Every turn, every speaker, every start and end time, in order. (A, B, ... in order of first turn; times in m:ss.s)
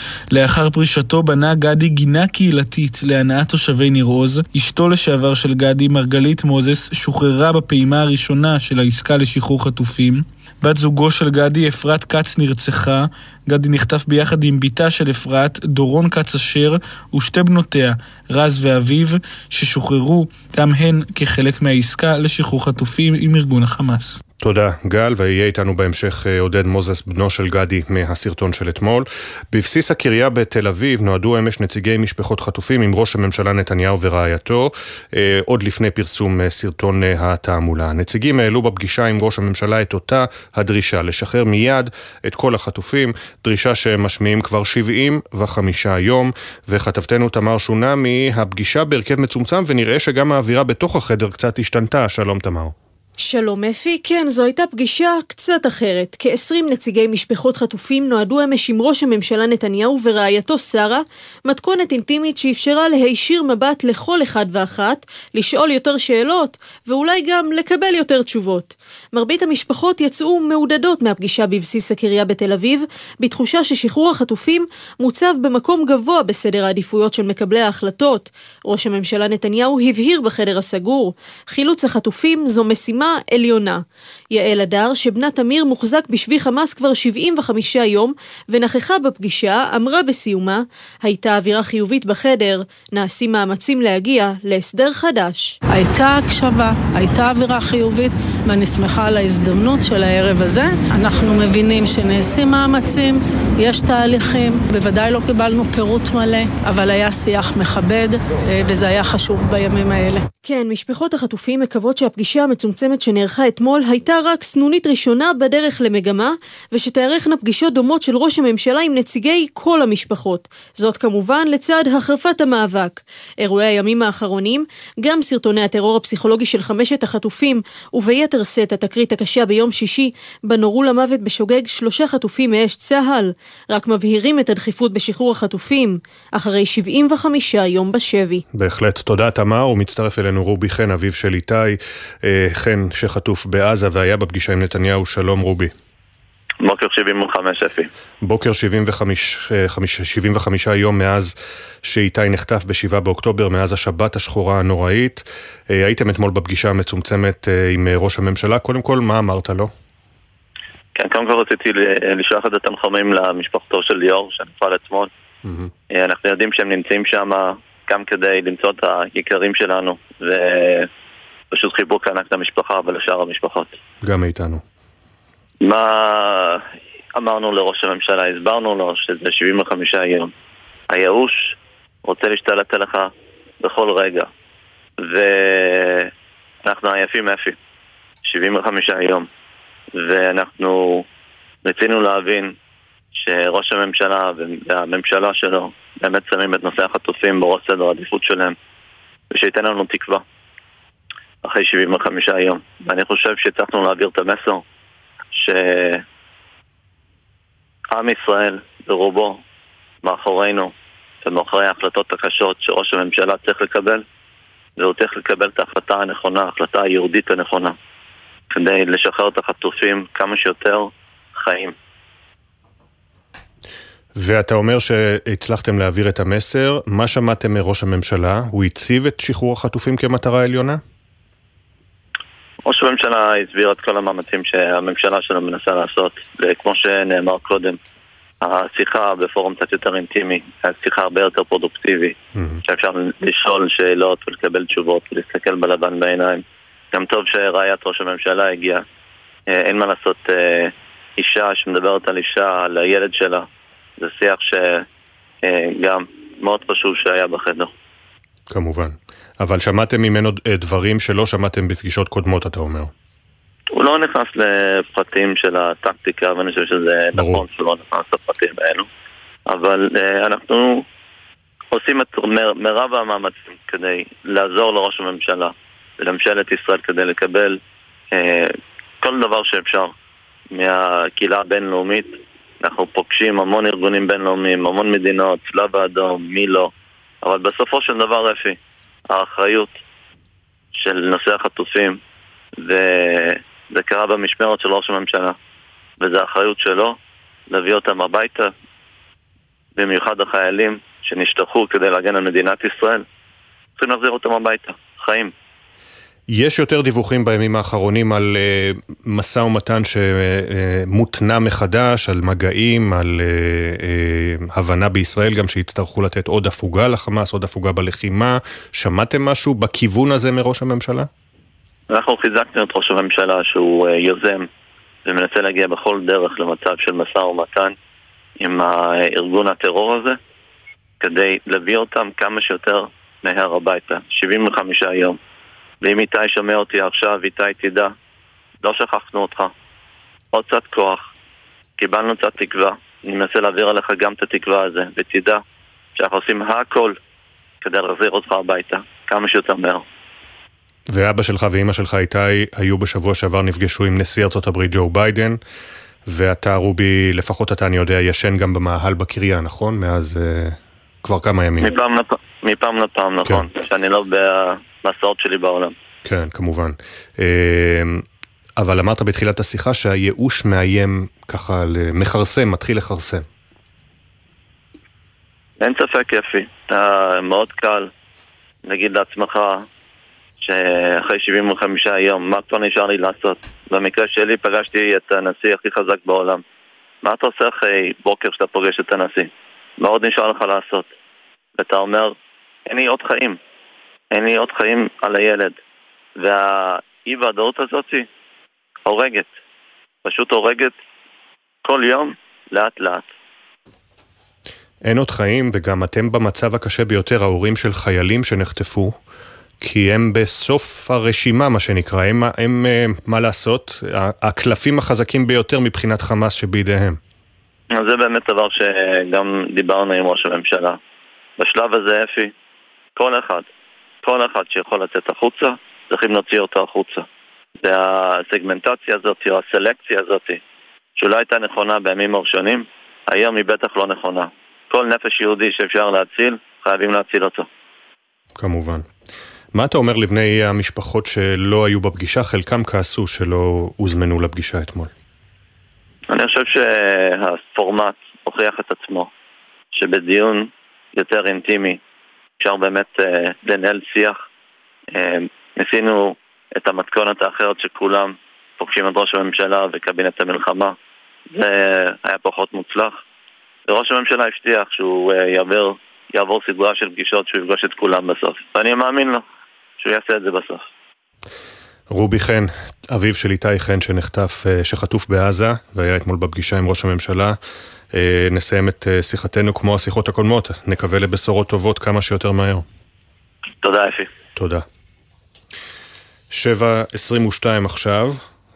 0:00.3-0:24.2 A
0:24.4-0:52.7 B
0:53.2-1:35.5 C
1:35.7-1:50.3 D
1:50.4-2:18.4 C
2:18.5-2:25.7 B
2:26.6-2:27.9 E
2:28.2-2:31.3 B
2:31.8-2:39.7 B
2:41.0-2:45.1 E
2:45.4-2:45.7 B
2:45.9-2:50.9 E
2:51.5-2:53.8 E
2:54.0-2:54.6 B
2:55.6-2:56.6 E
2:57.2-3:00.3 E
3:00.9-3:01.5 E
3:02.0-3:03.1 E
3:03.6-3:04.3 E
3:05.0-3:06.1 E
3:06.6-3:07.6 E
3:08.3-3:09.3 E
3:10.0-3:11.1 E
3:11.6-3:12.5 E
3:13.2-3:18.6 E
3:19.3-3:20.2 E
3:21.4-3:24.6 E
3:25.3-3:26.0 E
3:27.9-3:29.4 E
3:30.0-3:30.7 E
3:31.2-3:34.0 E
3:34.8-3:37.8 E
3:38.5-3:41.7 E
3:44.2-3:50.8 B
3:52.6-3:57.8 E
3:58.4-4:02.2 E
4:02.4-4:02.6 B
4:02.7-4:08.8 E
4:09.5-4:13.5 E
4:14.0-4:14.8 E
4:15.4-4:17.7 E
4:18.5-4:22.9 B
4:23.7-4:28.9 E
4:27.2-4:27.4 B
4:29.5-4:30.8 E
4:31.7-4:37.6 E
4:38.1-4:39.9 E
4:40.5-4:46.7 E
4:47.2-4:48.6 E
4:49.1-4:49.8 E
4:50.8-4:52.0 E
4:52.6-4:55.4 E
4:56.0-4:57.0 E
4:57.5-4:58.5 E
4:59.8-5:03.0 E
5:03.8-5:05.3 E
5:06.3-5:21.1 B
5:21.9-5:24.5 E
5:25.1-5:27.8 E
5:28.4-5:30.2 E
5:31.0-5:35.2 E
5:35.8-5:37.9 E
5:38.6-5:39.5 E
5:40.3-5:41.0 E
5:41.8-5:45.4 E
5:46.0-5:47.0 E
5:47.6-5:49.8 E
5:50.9-5:55.4 B
5:56.1-6:01.8 B
6:01.6-6:05.7 E
6:06.0-6:08.0 B
6:08.6-6:13.2 B
6:15.6-6:17.9 E
6:18.7-6:19.6 E
6:20.4-6:26.4 E
6:27.0-6:30.9 E
6:31.6-6:32.1 E
6:32.7-6:33.4 E
6:34.1-6:35.6 E
6:36.2-6:38.1 E
6:38.9-6:39.3 E
6:40.0-6:40.7 E
6:41.6-6:43.1 E
6:44.8-6:49.0 B
6:49.6-6:57.0 B
6:57.7-7:00.8 E
7:01.4-7:02.3 E
7:03.0-7:03.5 E
7:04.0-7:07.0 E
7:07.6-7:10.4 E
7:11.0-7:17.5 E
7:18.4-7:18.9 B
7:19.5-7:24.9 B
7:26.1-7:29.1 E
7:29.7-7:31.8 E
7:32.4-7:34.2 E
7:34.9-7:40.8 E
7:41.3-7:43.0 E
7:43.7-7:49.2 E
7:49.8-7:50.6 E
7:51.9-7:57.4 B
7:57.9-8:02.6 B
8:03.6-8:04.1 E
8:04.4-8:04.6 B
8:06.3-8:08.2 B